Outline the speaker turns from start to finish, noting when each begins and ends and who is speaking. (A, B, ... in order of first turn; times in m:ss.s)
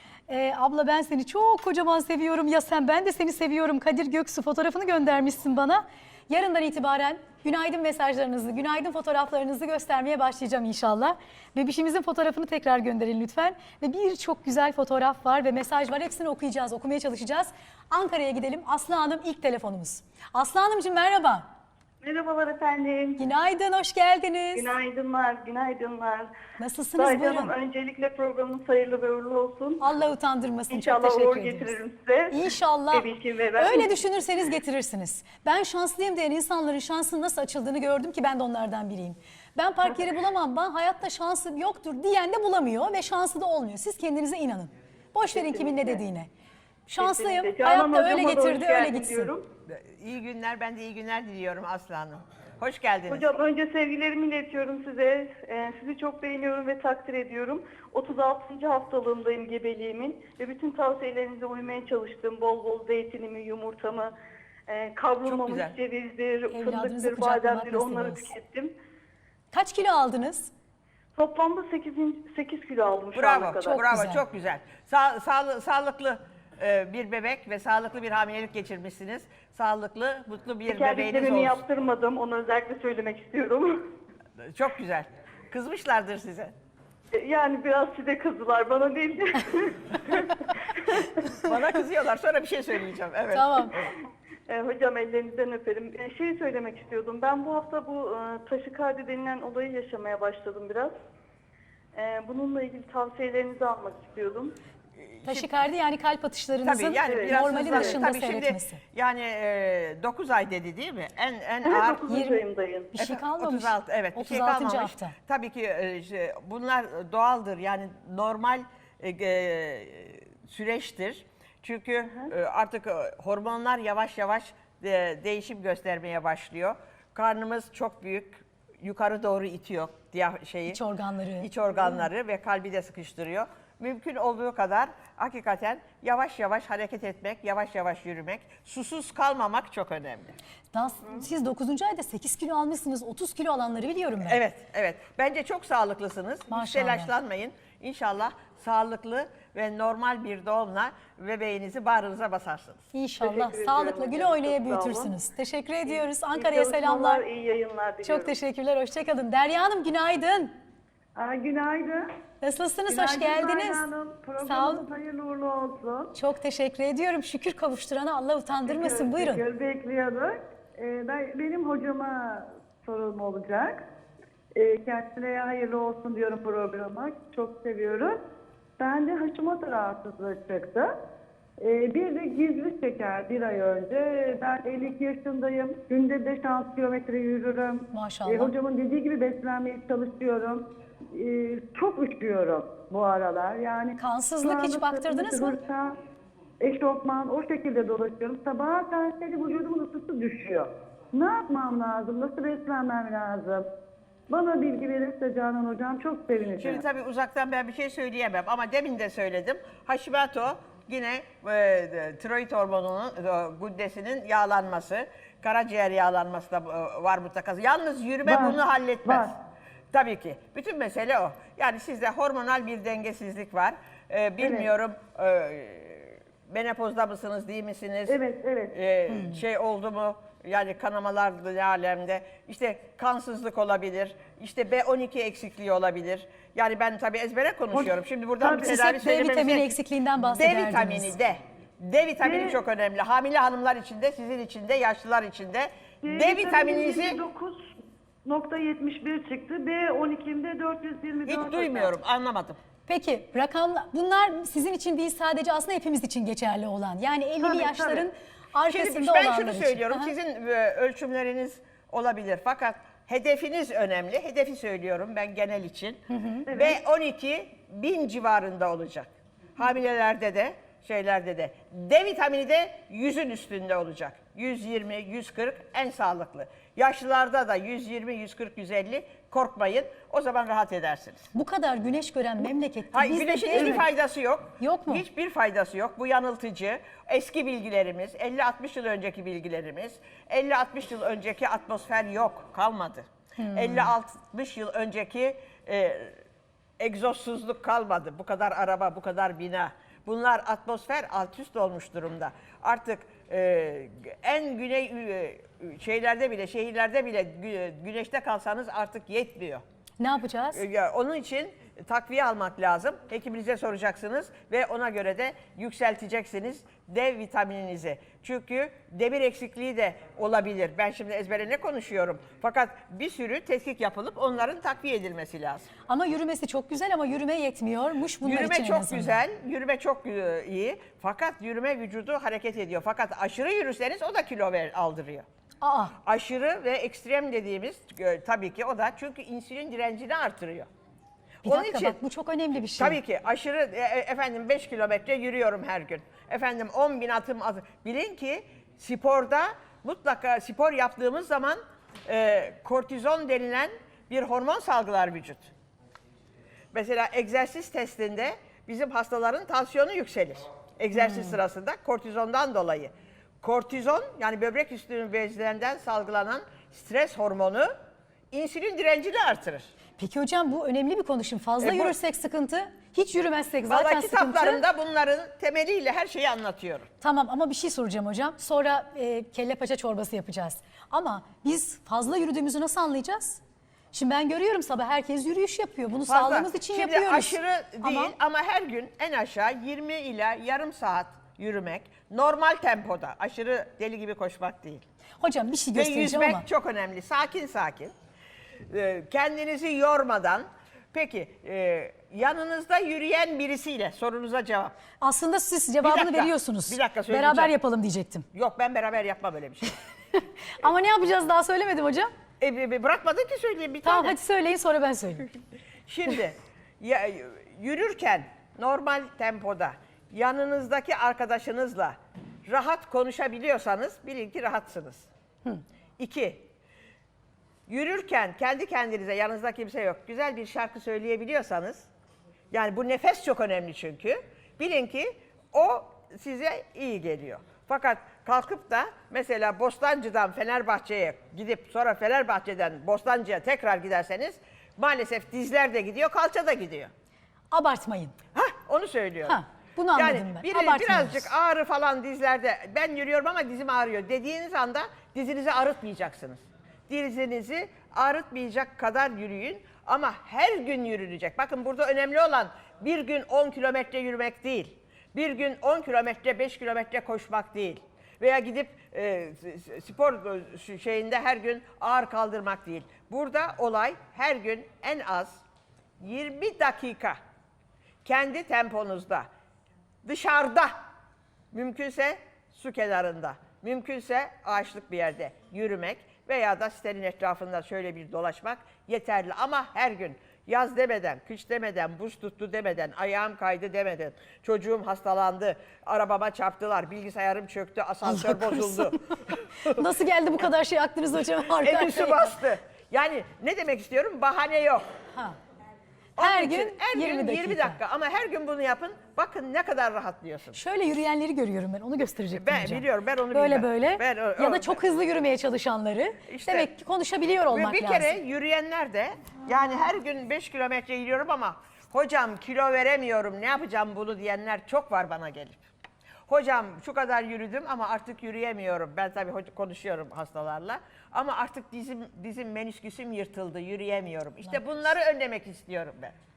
0:00.3-0:21.5 A
0:22.0-0:23.2 B
0:23.2-0:24.7 A
0:24.5-0:26.4 B
0:26.6-0:27.5 A
0:27.0-0:29.8 B
0:29.8-0:31.8 A
0:30.7-0:34.0 B
0:32.3-0:46.3 A
0:45.3-0:46.0 B
0:46.9-0:49.3 A
0:47.0-0:49.5 B
0:49.7-0:53.3 C
0:53.1-1:04.1 B
1:04.7-1:08.7 B
1:05.3-1:05.7 C
1:06.5-1:08.3 A
1:09.5-1:10.5 A
1:11.2-1:13.8 B
1:13.1-1:21.6 C
1:13.6-1:14.2 A
1:20.7-1:23.8 B
1:24.4-1:26.5 C
1:27.1-1:31.1 B
1:31.4-1:33.9 C
1:33.3-1:33.7 A
1:34.5-1:40.9 B
1:41.9-1:44.6 B
1:45.0-1:45.6 C
1:45.2-1:48.8 A
1:46.6-1:52.0 C
1:47.0-1:48.0 B
1:51.7-1:52.9 B
1:52.1-1:52.4 A
1:52.9-1:55.2 A
1:53.0-2:10.8 C
2:10.7-2:11.5 A
2:11.4-2:20.4 C
2:20.7-2:24.4 A
2:24.3-2:32.8 C
2:26.5-2:27.1 A
2:32.9-2:37.2 A
2:33.2-2:35.1 B
2:36.3-2:38.4 B
2:38.0-2:40.5 A
2:41.2-2:42.1 D
2:42.4-2:43.9 A
2:42.9-2:46.1 D
2:44.4-2:44.9 A
2:46.2-2:49.4 A
2:48.7-2:53.8 D
2:54.5-2:58.2 D
2:58.8-3:00.9 D
3:01.6-3:16.0 D
3:07.9-3:08.5 A
3:14.0-3:15.6 A
3:16.6-3:23.7 D
3:24.3-3:26.8 D
3:26.6-3:39.4 C
3:38.2-3:39.3 D
3:39.9-3:48.2 C
3:44.4-3:44.7 D
3:48.1-3:48.8 D
3:48.7-4:07.2 C
3:57.7-3:58.7 D
3:58.5-4:01.2 A
4:02.2-4:02.6 D
4:06.0-4:07.7 D
4:08.2-4:11.9 D
4:11.3-4:12.6 C
4:12.9-4:20.1 A
4:17.4-4:18.1 D
4:18.7-4:41.2 C
4:26.1-4:26.5 A
4:26.5-4:26.8 D
4:41.3-4:43.8 A
4:42.9-4:56.2 C
4:44.6-4:45.0 A
4:53.4-4:53.9 A
4:56.8-5:09.6 C
5:10.0-5:10.6 A
5:10.5-5:25.7 C
5:25.9-5:29.2 A
5:28.2-5:35.2 C
5:35.6-5:35.9 A
5:36.0-5:40.7 C
5:41.4-5:43.0 A
5:41.5-5:42.0 C
5:42.8-5:55.5 C
5:56.7-6:07.7 C
6:08.3-6:09.7 C
6:10.0-6:14.6 A
6:11.6-6:12.0 C
6:13.7-6:16.9 C
6:17.0-6:23.4 A
6:23.9-6:28.1 A
6:26.1-6:34.8 C
6:35.2-6:36.4 A
6:35.7-6:37.9 C
6:38.7-6:44.7 C
6:45.0-6:48.3 A
6:45.8-6:47.6 C
6:48.3-6:49.8 C
6:50.5-6:52.1 A
6:52.4-6:54.2 C
6:53.8-6:55.3 A
6:55.9-7:05.1 C
7:06.0-7:06.5 C
7:07.7-7:11.9 C
7:12.5-7:26.9 C
7:27.5-7:28.2 A
7:28.3-7:29.4 C
7:29.3-7:31.3 A
7:30.0-7:55.4 C
7:56.0-7:57.2 C
7:58.0-7:59.3 C
8:00.0-8:00.7 C
8:01.5-8:19.9 C
8:18.0-8:22.4 A
8:21.5-8:24.8 C
8:26.2-8:30.6 C
8:26.2-8:27.8 A
8:30.5-8:38.2 A
8:32.3-8:34.8 C
8:36.3-8:36.7 C
8:37.5-8:45.6 C
8:46.3-8:56.2 C